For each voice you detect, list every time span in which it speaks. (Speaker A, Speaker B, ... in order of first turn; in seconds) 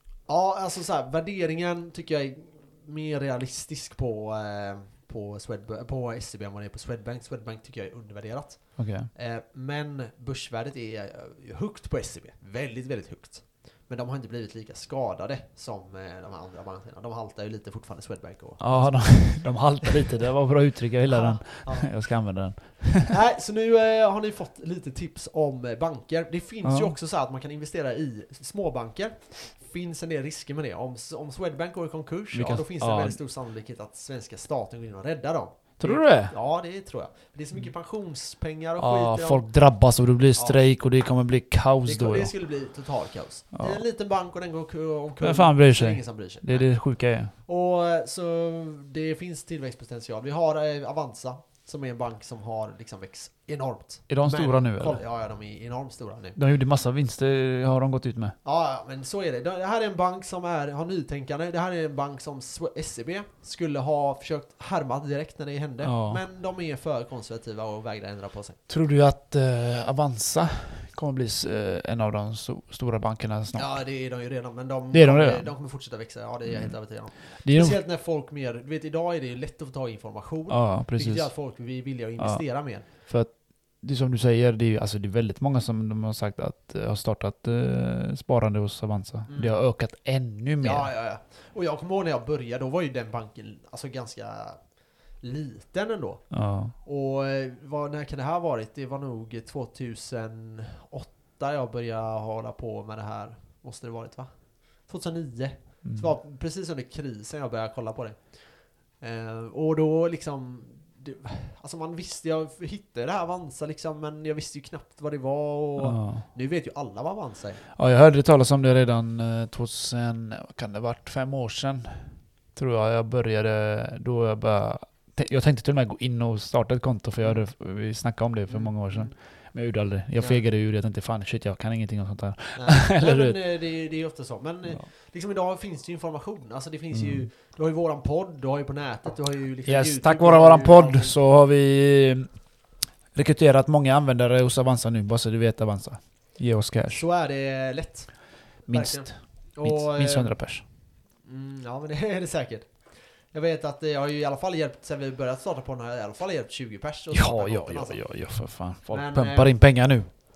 Speaker A: 0.3-20.2, 21.1-21.9, 23.1-39.4, 41.8-56.4, 58.4-68.6, 73.5-82.9, 89.3-89.6, 90.6-94.6, 95.2-117.6, 128.5-129.2, 130.2-130.4, 132.5-141.1, 146.9-150.4, 151.2-158.0, 158.9-159.5
Speaker B: 8.8-9.1, 18.6-23.1, 26.6-26.9, 32.3-33.2, 35.8-36.3, 38.8-42.3, 43.5-43.8, 45.2-47.3, 54.1-55.0, 56.4-58.4, 65.8-66.2, 68.7-73.8, 74.9-75.5, 76.5-77.8, 80.5-81.3, 82.2-90.9, 96.3-96.7, 105.8-106.1, 115.8-116.3, 117.7-133.4, 136.9-137.3, 139.7-142.3, 143.1-147.0, 148.7-150.6, 157.1-160.1